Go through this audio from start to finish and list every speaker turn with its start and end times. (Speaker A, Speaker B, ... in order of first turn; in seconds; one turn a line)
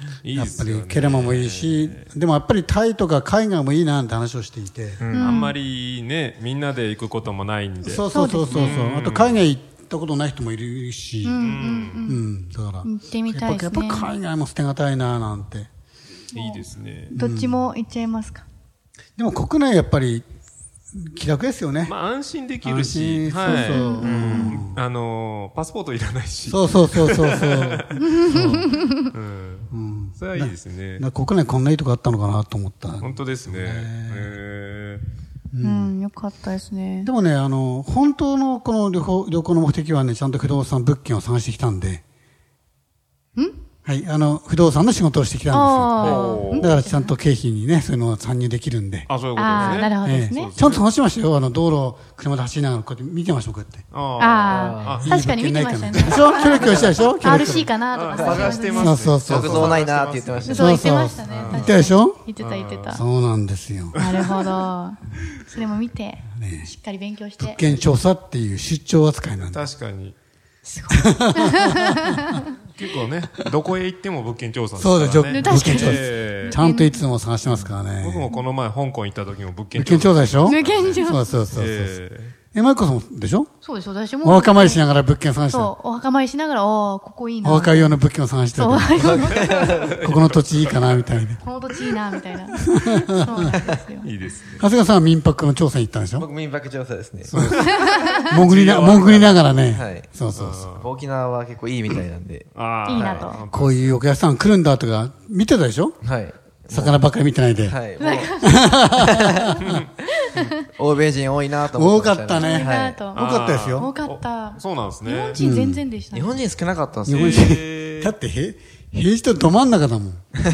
Speaker A: 0.2-2.1
Speaker B: 0.3-5.0
Speaker C: 5.0-5.4
Speaker D: 5.1-5.5
Speaker A: 5.1-9.5
Speaker B: 7.8-15.7
Speaker D: 8.1-8.8
Speaker D: 11.2-12.2
Speaker A: 11.4-12.1
Speaker D: 12.8-14.1
Speaker A: 16.3-17.1
Speaker D: 16.4-16.6
Speaker B: 17.1-17.7
Speaker D: 17.1-18.5
Speaker B: 19.2-20.2
Speaker B: 20.9-21.9
Speaker A: 21.9-31.0
Speaker B: 22.6-24.8
Speaker D: 23.5-24.5
Speaker C: 24.0-24.6
Speaker B: 26.5-28.8
Speaker D: 28.0-28.9
Speaker B: 29.7-34.4
Speaker A: 33.0-35.0
Speaker B: 35.5-36.0
Speaker D: 35.6-37.1
Speaker B: 37.0-42.0
Speaker B: 43.9-53.9
Speaker D: 45.5-47.1
Speaker A: 46.0-46.8
Speaker A: 49.1-50.8
Speaker D: 49.4-50.5
Speaker A: 53.9-55.2
Speaker D: 54.2-59.1
Speaker C: 54.5-55.0
Speaker B: 55.0-57.7
Speaker C: 56.5-57.1
Speaker A: 57.9-61.8
Speaker C: 58.2-58.5
Speaker B: 58.7-59.8
Speaker C: 59.2-60.6
Speaker D: 60.5-63.0
Speaker B: 60.5-62.2
Speaker A: 62.4-63.0
Speaker B: 62.9-64.0
Speaker A: 63.9-64.5
Speaker D: 63.9-67.6
Speaker B: 66.3-66.7
Speaker B: 67.4-69.7
Speaker A: 69.4-70.2
Speaker D: 70.6-72.5
Speaker B: 70.9-71.8
Speaker A: 72.7-76.6
Speaker B: 74.8-78.3
Speaker D: 75.3-77.0
Speaker C: 77.5-77.7
Speaker A: 78.0-81.0
Speaker B: 79.8-82.0
Speaker D: 80.4-81.4
Speaker A: 81.5-82.3
Speaker B: 82.5-83.5
Speaker D: 83.6-84.9
Speaker B: 84.2-85.7
Speaker D: 85.5-88.0
Speaker B: 87.4-89.5
Speaker D: 88.5-89.6
Speaker C: 89.0-89.8
Speaker A: 89.5-91.3
Speaker B: 90.0-91.4
Speaker D: 91.4-94.1
Speaker B: 93.0-93.6
Speaker A: 94.0-94.7
Speaker B: 94.6-96.3
Speaker C: 96.2-97.3
Speaker B: 97.2-100.7
Speaker A: 97.4-99.5
Speaker D: 97.5-98.2
Speaker C: 99.7-100.1
Speaker A: 100.3-100.9
Speaker C: 100.8-103.3
Speaker A: 102.5-104.0
Speaker D: 102.8-103.4
Speaker B: 103.5-106.0
Speaker C: 106.0-107.0
Speaker B: 106.7-107.8
Speaker C: 107.6-108.4
Speaker D: 108.0-108.9
Speaker B: 108.4-109.8
Speaker C: 109.0-109.5
Speaker A: 109.6-109.9
Speaker D: 110.2-110.6
Speaker C: 110.8-113.0
Speaker B: 111.7-113.9
Speaker D: 112.3-116.5
Speaker A: 113.1-115.5
Speaker B: 115.4-115.8
Speaker C: 116.1-117.5
Speaker B: 117.0-120.3
Speaker A: 117.1-118.1